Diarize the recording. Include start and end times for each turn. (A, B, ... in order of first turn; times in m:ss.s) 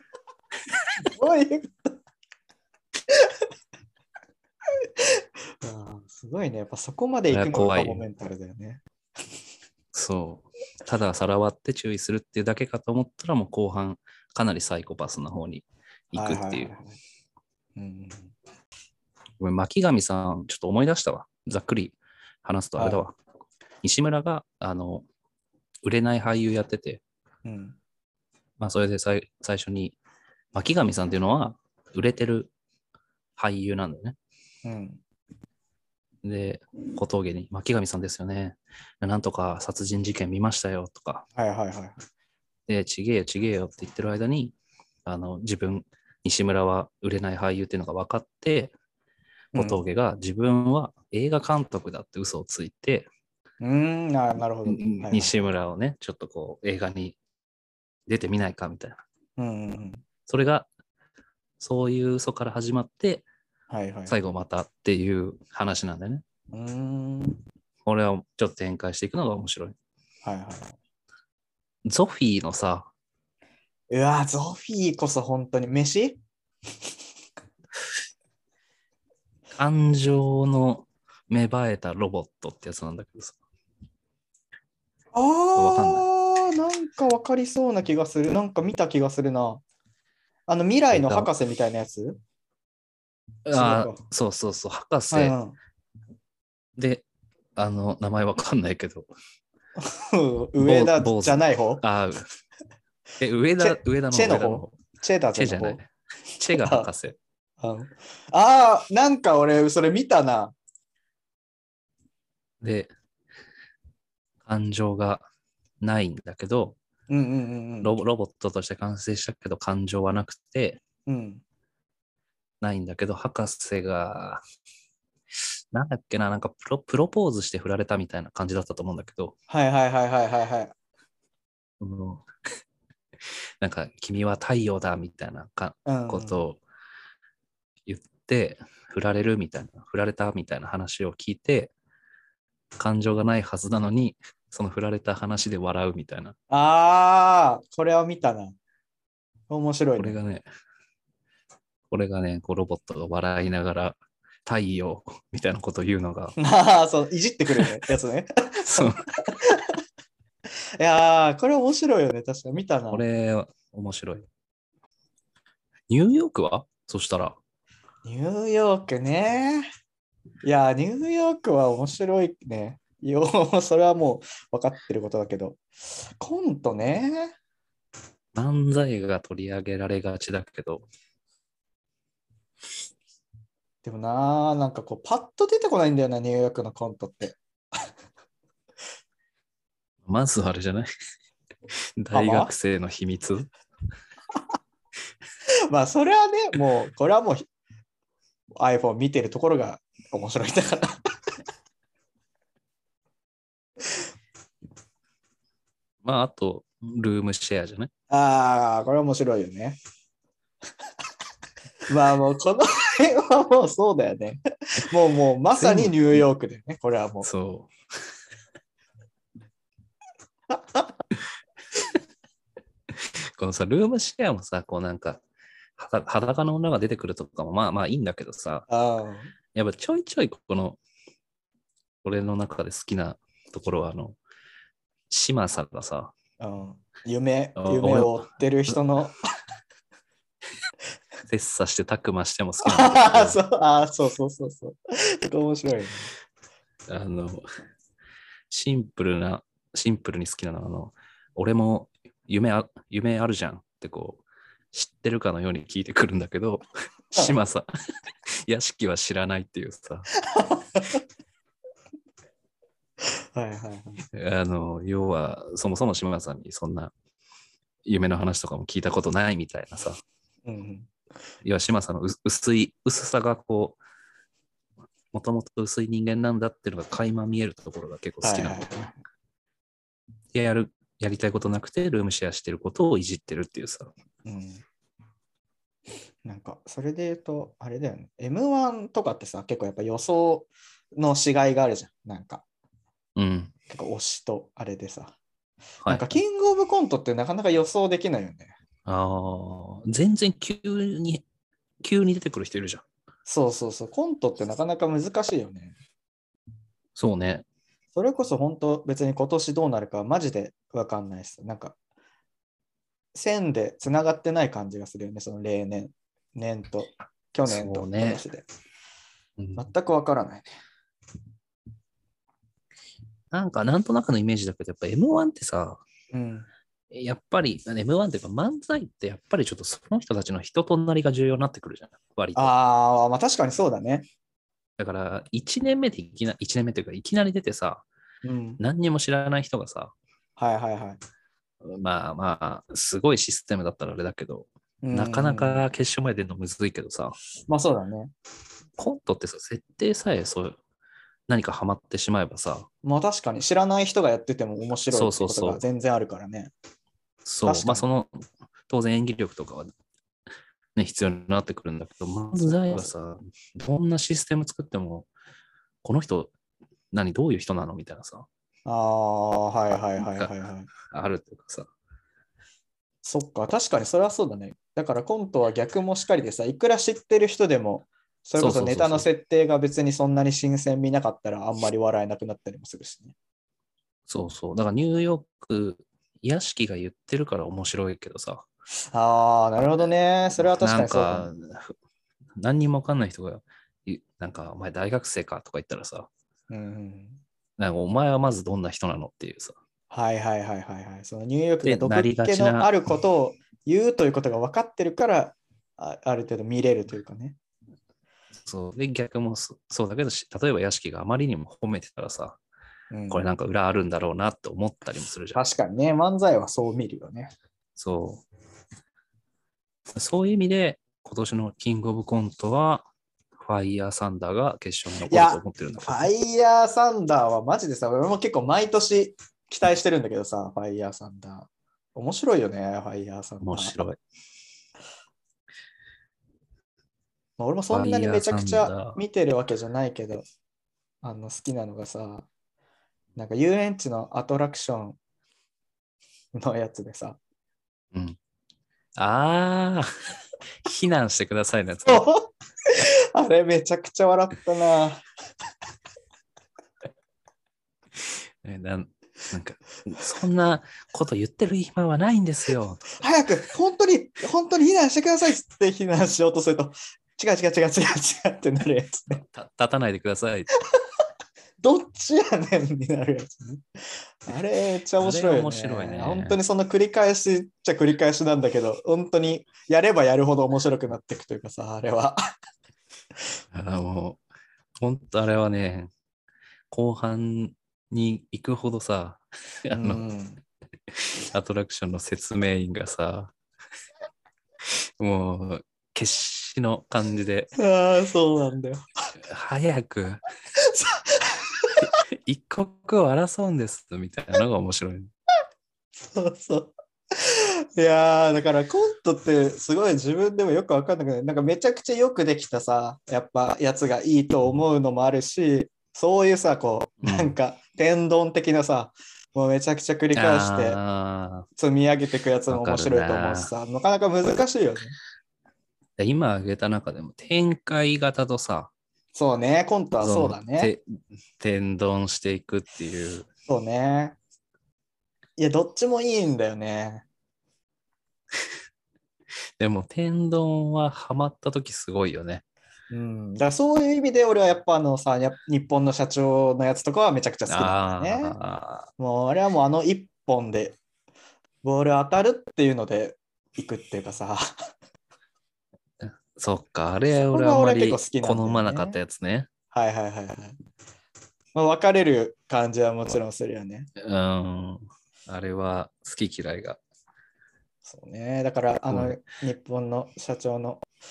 0:01.0-0:01.9 A
0:04.8-0:08.8 A
0:07.3-0:08.0 B
0:09.9-0:16.7 B
0:16.1-0:17.0 A
0:17.8-0:18.3 A
0:19.4-0:23.2 B
0:22.8-0:23.0 A
0:23.8-0:25.1 B
0:25.8-0:27.0 B
0:27.4-0:27.8 A
0:28.6-0:30.0 B
0:30.5-0:32.5 B
0:33.4-0:34.2 B
0:34.6-0:35.0 A
0:36.2-0:41.3 B
0:41.4-0:42.0 A
0:42.7-0:48.7 B
0:49.5-0:49.8 A
0:49.6-0:53.1 B
0:53.6-0:55.5 A
0:54.7-0:57.2 B
0:58.1-0:59.0 B
0:59.4-1:00.0 A
1:00.3-1:00.7 B
1:01.6-1:03.2 B
1:03.7-1:04.2 A
1:04.1-1:06.2 B
1:06.5-1:07.4 A
1:07.8-1:09.8 B
1:10.2-1:10.8 A
1:11.8-1:12.9 B
1:13.9-1:16.2 A
1:19.6-1:23.4 B
1:25.1-1:29.6 A
1:25.6-1:26.1 B
1:30.5-1:32.2 A
1:30.9-1:31.3 B
1:33.4-1:35.4 B
1:33.5-1:34.0 A
1:35.1-1:35.6 A
1:36.8-1:39.1 B
1:39.8-1:41.8 A
1:40.6-1:42.3 B
1:43.2-1:44.8 B
1:43.6-1:45.8 A
1:45.4-1:47.2 B
1:46.5-1:46.9 A
1:47.6-1:50.6 A
1:52.6-1:52.9 B
1:54.4-1:55.2 B
1:55.8-1:56.8 B
1:57.1-1:57.9 A
1:57.8-2:00.8 B
2:01.1-2:01.4 A
2:02.6-2:04.4 B
2:05.7-2:09.4 B
2:09.5-2:10.7 A
2:11.8-2:12.3 B
2:13.6-2:16.6 B
2:15.9-2:16.4 A
2:17.9-2:21.7 B
2:22.8-2:26.4 B
2:26.5-2:28.6 A
2:29.5-2:30.2 A
2:30.0-2:30.5 B
2:31.9-2:36.4 B
2:36.4-2:39.7 A
2:38.7-2:39.0 B
2:40.8-2:43.0 A
2:42.9-2:44.3 B
2:45.9-2:47.4 B
2:48.0-2:49.7 A
2:50.4-2:55.6 A
2:56.2-2:57.3 A
2:58.4-3:00.9 B
3:03.8-3:07.4 A
3:10.0-3:10.9 B
3:12.0-3:13.5 B
3:12.1-3:12.5 A
3:15.7-3:17.5 A
3:18.6-3:21.0 A
3:26.0-3:27.9 B
3:28.1-3:29.8 A
3:31.9-3:37.3 A
3:35.6-3:36.2 B
3:37.2-3:37.7 B
3:40.5-3:40.8 A
3:42.9-3:45.2 B
3:45.8-3:48.7 B
3:48.7-3:49.3 A
3:49.5-3:50.8 B
3:52.0-3:54.2 B
3:55.1-3:56.1 B
3:56.4-3:59.2 A
3:57.6-3:58.7 B
4:01.3-4:03.4 B
4:02.6-4:06.1 A
4:06.9-4:07.4 B
4:08.5-4:17.7 B
4:18.4-4:20.1 B
4:20.3-4:21.0 A
4:23.4-4:24.0 A
4:24.1-4:26.9 B
4:27.8-4:30.0 B
4:30.4-4:30.9 A
4:31.4-4:33.8 B
4:35.1-4:38.7 B
4:38.2-4:39.0 A
4:40.3-4:43.9 B
4:44.2-4:44.6 A
4:46.2-4:52.4 A
4:53.2-4:53.5 B
4:53.7-4:55.2 A
4:55.8-4:56.2 B
4:55.9-4:58.5 A
4:58.9-5:01.2 B
5:01.8-5:02.8 B
5:03.3-5:05.8 A
5:07.0-5:07.4 B
5:08.0-5:11.8 A
5:13.2-5:18.5 A
5:17.5-5:18.2 B
5:19.6-5:20.5 A
5:23.3-5:25.8 B
5:26.1-5:26.5 A
5:26.9-5:32.5 B
5:32.4-5:34.1 A
5:34.8-5:37.8 B
5:38.2-5:38.6 A
5:38.6-5:39.9 B
5:40.4-5:41.0 A
5:41.6-5:47.2 B
5:44.8-5:45.6 A
5:47.5-5:48.1 A
5:48.8-5:50.6 B
5:51.3-5:52.7 B
5:52.8-5:56.5 A
5:54.9-5:55.6 B
5:57.2-5:59.7 B
5:57.4-5:57.9 A
6:00.8-6:05.1 B
6:02.4-6:02.9 A
6:05.8-6:06.3 B
6:06.9-6:08.3 B
6:08.7-6:10.7 A
6:10.0-6:10.3 B
6:10.8-6:11.7 B
6:13.0-6:23.2 A
6:18.4-6:19.1 B
6:24.1-6:28.5 B
6:28.9-6:31.3 A
6:30.4-6:31.8 B
6:32.4-6:36.1 B
6:36.5-6:37.2 A
6:37.6-6:39.6 B
6:39.9-6:47.4 A
6:41.6-6:42.7 B
6:48.4-6:52.4 B
6:52.9-6:53.3 A
6:53.1-6:55.4 B
6:55.3-6:57.3 A
6:57.8-6:58.3 B
6:59.9-7:06.1 B
7:05.0-7:13.8 A
7:13.4-7:14.0 B
7:17.4-7:20.2 A
7:17.7-7:19.0 B
7:21.0-7:22.3 A
7:23.2-7:25.0 A
7:26.3-7:27.2 A
7:29.0-7:29.9 B
7:30.6-7:32.1 B
7:31.9-7:35.0 A
7:38.0-7:43.0 B
7:43.0-7:49.2 A
7:49.2-7:50.5 B
7:51.6-8:02.2 A
7:55.0-7:56.4 B
8:03.5-8:04.2 B
8:04.8-8:05.9 B
8:06.7-8:10.0 B
8:09.7-8:10.4 A
8:10.9-8:13.3 B
8:14.7-8:17.5 B
8:17.6-8:18.8 A
8:19.2-8:20.2 B
8:20.6-8:21.9 A
8:21.8-8:25.1 B
8:26.0-8:40.8 A
8:37.0-8:37.3 B
8:40.2-8:41.5 B
8:41.6-8:45.0 A
8:42.5-8:43.5 B
8:46.0-8:48.7 B
8:49.2-8:50.7 A
8:50.0-8:53.3 B
8:53.5-8:54.2 A
8:55.4-8:57.0 A
8:59.6-9:02.4 B
9:02.9-9:08.4 A
9:07.5-9:08.9 B
9:09.0-9:10.8 A
9:11.6-9:14.5 A
9:16.0-9:19.5 B
9:17.3-9:19.0 A
9:19.7-9:20.6 A
9:21.6-9:23.9 A
9:24.0-9:26.8 B
9:27.9-9:30.9 A
9:28.9-9:29.2 B